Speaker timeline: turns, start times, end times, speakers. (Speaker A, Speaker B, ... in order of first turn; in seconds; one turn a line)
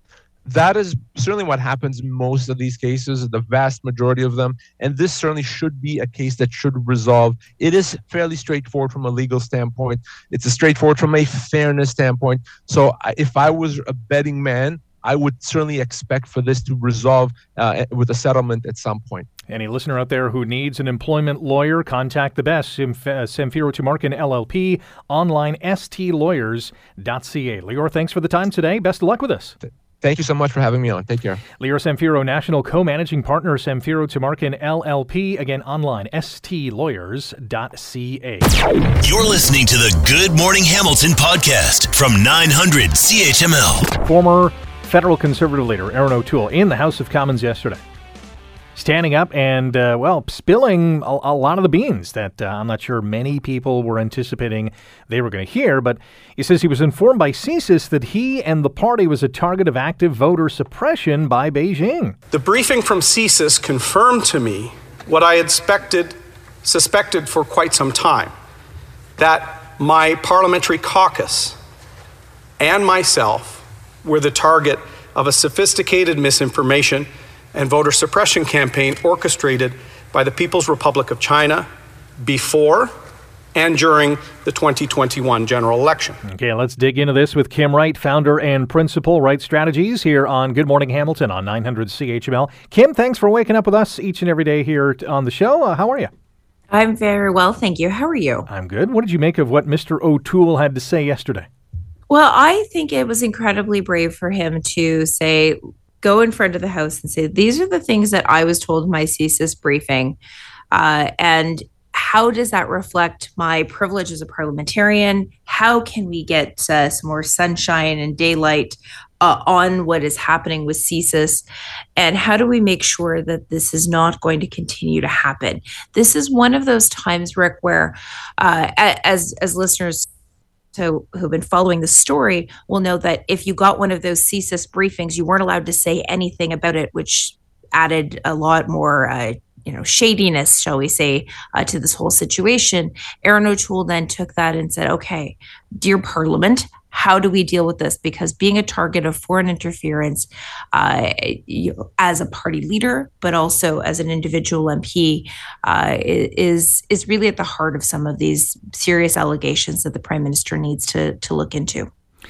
Speaker A: 0.5-19.3
Speaker B: 19.5-29.6
Speaker A: 29.6-31.4
Speaker B: 31.6-38.5
Speaker C: 39.0-43.9
Speaker B: 44.0-47.8
Speaker B: 48.8-62.2
Speaker D: 62.3-68.3
Speaker D: 69.2-71.6
Speaker D: 72.6-81.7
Speaker D: 82.2-82.9
Speaker D: 83.5-86.2
Speaker B: 86.2-96.1
Speaker E: 96.7-98.5
Speaker B: 98.5-101.5
Speaker E: 102.1-110.2
Speaker E: 110.7-121.5
Speaker E: 122.0-130.1
Speaker E: 130.7-161.9